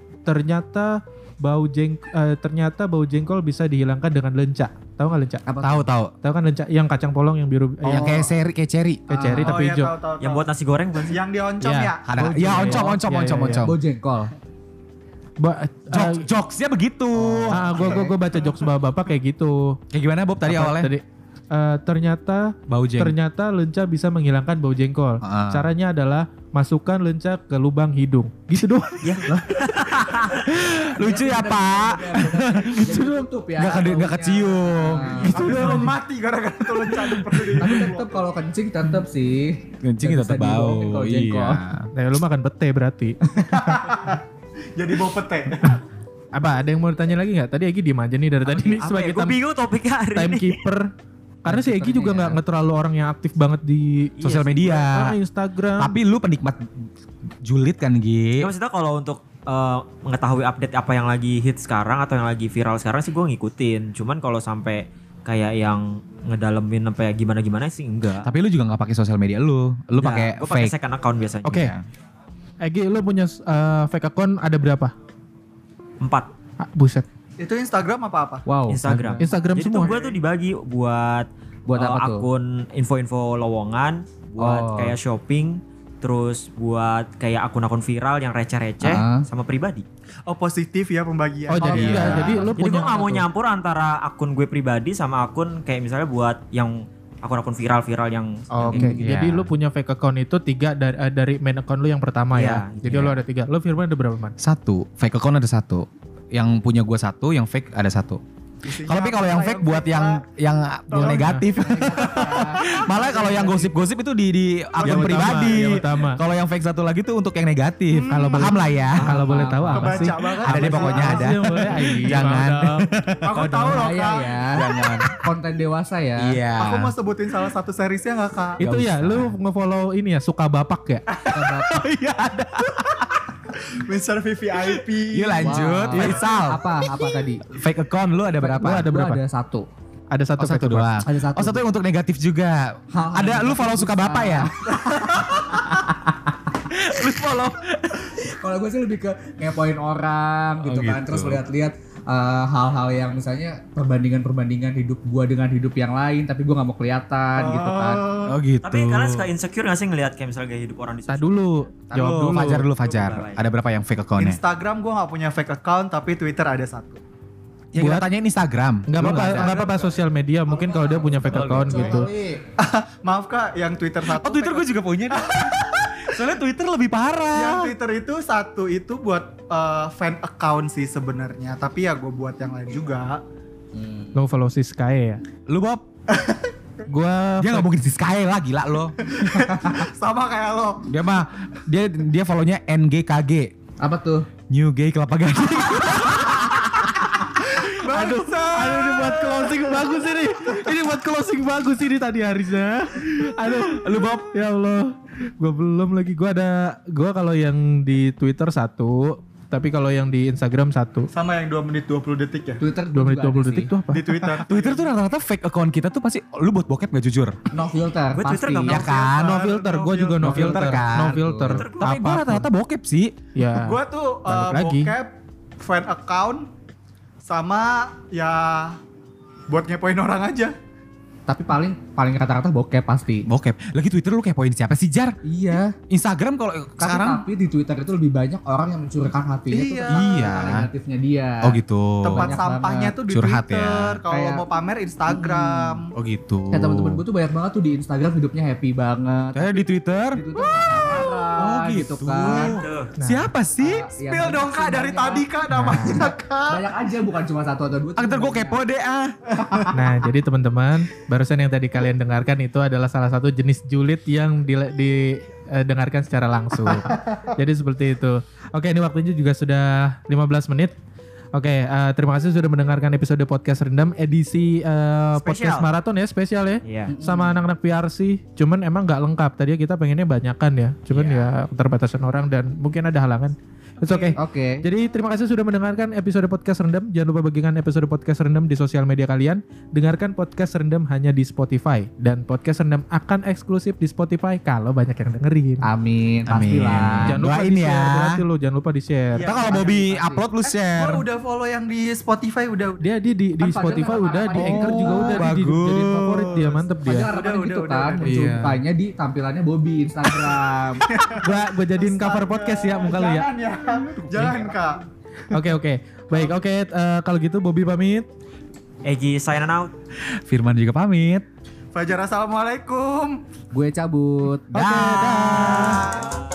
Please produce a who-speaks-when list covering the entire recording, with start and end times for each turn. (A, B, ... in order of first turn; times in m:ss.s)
0:00.2-0:05.5 A
0:05.5-0:05.9 B
0:05.6-0:06.1 C
0:06.2-0:08.3 A
0:07.8-0:09.0 C
0:07.9-0:08.3 B
0:09.1-0:09.9 A
0:09.1-0:09.6 B
0:09.4-0:10.5 D
0:10.2-0:11.2 E
0:11.0-0:12.3 D
0:11.6-0:13.7 A
0:12.0-0:13.8 C
0:12.2-0:13.0 B
0:13.6-0:14.3 B
0:15.4-0:16.3 A
0:15.9-0:17.8 C
0:17.2-0:18.2 B
0:17.5-0:19.8 A
0:19.9-0:20.9 C
0:20.4-0:29.3 A
0:22.7-0:23.2 C
0:25.2-0:25.7 C
0:29.0-0:30.4 E
0:30.4-0:33.0 C
0:30.9-0:35.5 B
0:32.8-0:33.3 A
0:33.6-0:35.1 C
0:35.0-0:38.3 D
0:35.3-0:35.9 A
0:37.6-0:41.6 B
0:39.8-0:41.9 C
0:42.0-0:43.9 A
0:43.4-0:44.2 D
0:44.8-0:45.8 D
0:46.3-0:49.4 A
0:48.4-0:50.6 E
0:50.1-0:50.9 A
0:51.4-0:54.2 A
0:51.4-0:52.4 B
0:54.2-0:54.8 E
0:54.2-0:55.2 C
0:54.8-0:56.0 A
0:55.8-0:56.6 C
0:57.4-0:58.5 C
0:58.4-1:08.3 E
1:08.2-1:10.7 C
1:10.0-1:11.6 E
1:11.4-1:11.8 C
1:11.5-1:11.7 A
1:12.6-1:14.9 A
1:16.0-1:16.3 E
1:16.6-1:17.1 A
1:17.4-1:18.4 D
1:18.5-1:19.2 B
1:18.7-1:29.8 E
1:19.2-1:19.9 A
1:19.7-1:20.2 D
1:21.7-1:22.3 B
1:24.4-1:25.0 B
1:28.8-1:29.2 B
1:30.3-1:32.8 D
1:31.5-1:33.3 A
1:31.6-1:32.6 B
1:31.6-1:32.3 C
1:32.5-1:39.0 E
1:38.6-1:39.5 C
1:38.6-1:44.4 A
1:42.3-1:43.2 E
1:44.4-1:48.2 C
1:48.6-1:50.2 D
1:48.7-1:59.2 C
1:50.9-1:52.8 D
1:50.9-1:51.6 A
1:51.5-1:53.7 B
1:54.8-1:55.8 D
1:54.8-1:56.2 A
1:57.9-2:02.3 D
1:58.1-2:03.9 A
1:59.2-1:59.7 B
1:59.7-2:03.3 C
2:03.2-2:04.4 D
2:03.7-2:04.6 B
2:04.5-2:05.1 C
2:05.2-2:06.4 B
2:06.2-2:06.9 C
2:06.6-2:08.6 D
2:08.6-2:11.2 A
2:08.6-2:09.4 C
2:11.3-2:11.9 B
2:11.9-2:12.8 C
2:12.9-2:16.3 D
2:15.1-2:16.8 C
2:15.4-2:17.4 B
2:15.9-2:16.2 A
2:17.4-2:18.9 C
2:18.4-2:19.7 B
2:18.5-2:19.2 A
2:20.1-2:21.0 A
2:20.4-2:24.5 C
2:21.0-2:21.7 B
2:22.9-2:26.4 B
2:25.1-2:25.6 C
2:26.7-2:28.1 C
2:28.0-2:38.1 B
2:30.6-2:31.4 C
2:37.4-2:38.4 D
2:38.2-2:39.3 C
2:38.6-2:41.4 E
2:41.1-2:42.7 A
2:41.9-2:44.4 C
2:42.8-2:43.4 E
2:44.2-2:47.0 D
2:47.7-2:49.6 C
2:47.8-2:48.1 A
2:48.9-2:52.1 A
2:49.0-2:50.0 D
2:50.5-2:52.5 B
2:51.3-2:51.9 C
2:52.6-2:56.0 D
2:54.1-2:57.7 C
2:57.3-3:03.2 D
3:03.8-3:04.2 B
3:04.1-3:05.2 A
3:05.5-3:05.8 C
3:06.1-3:06.5 D
3:06.9-3:07.7 A
3:07.4-3:09.0 C
3:09.0-3:10.8 D
3:10.8-3:13.5 C
3:13.8-3:14.3 B
3:14.5-3:16.7 C
3:17.2-3:19.9 D
3:17.9-3:31.1 A
3:20.5-3:20.7 D
3:23.8-3:24.3 C
3:31.1-3:32.6 D
3:32.6-3:33.7 B
3:32.9-3:34.4 A
3:33.9-3:34.9 D
3:34.5-3:37.4 C
3:37.5-3:38.8 B
3:38.2-3:39.1 E
3:38.7-3:39.4 C
3:38.7-3:40.9 D
3:39.2-3:42.5 A
3:40.2-3:41.7 B
3:40.2-3:41.2 C
3:41.5-3:42.0 E
3:41.8-3:43.1 C
3:43.4-3:45.0 A
3:43.4-3:46.5 D
3:47.2-3:48.8 D
3:49.5-3:50.6 D
3:51.3-3:53.3 B
3:53.3-3:55.2 C
3:55.3-3:55.8 B
3:55.9-3:57.3 C
3:56.8-4:01.6 B
3:59.5-4:00.3 D
3:59.9-4:00.7 C
4:01.4-4:02.4 C
4:02.0-4:05.9 D
4:02.1-4:03.0 B
4:03.1-4:04.0 C
4:04.1-4:04.4 B
4:05.1-4:05.8 B
4:06.0-4:07.0 C
4:06.5-4:09.5 B
4:09.4-4:10.2 C
4:10.1-4:12.6 B
4:10.8-4:13.8 C
4:12.2-4:12.9 E
4:13.0-4:13.3 A
4:13.6-4:15.3 B
4:13.9-4:16.6 D
4:15.5-4:15.9 A
4:15.8-4:18.6 B
4:18.0-4:19.2 C
4:19.4-4:19.8 D
4:19.7-4:30.7 A
4:26.6-4:26.8 C
4:31.3-4:55.7 A
4:35.2-4:35.7 E
4:36.6-4:36.9 E
4:36.9-4:37.4 B
4:40.9-4:41.3 E
4:43.8-4:44.2 D
4:44.2-4:44.6 B
4:55.6-4:57.2 B
4:56.3-4:58.2 C
4:57.0-4:59.3 A
4:59.1-4:59.7 D
4:59.2-5:01.0 C
4:59.3-5:00.3 B
5:00.4-5:02.8 D
5:02.8-5:07.1 A
5:03.4-5:05.2 B
5:04.4-5:06.6 C
5:04.7-5:04.9 D
5:06.5-5:08.3 D
5:06.8-5:10.8 B
5:08.0-5:08.6 C
5:10.8-5:14.8 D
5:11.2-5:13.3 A
5:14.0-5:14.5 A
5:15.3-5:18.1 A
5:18.8-5:19.7 E
5:20.2-5:21.3 C
5:21.7-5:23.2 D
5:23.5-5:24.7 B
5:24.5-5:25.8 A
5:24.5-5:25.9 C
5:25.3-5:26.1 D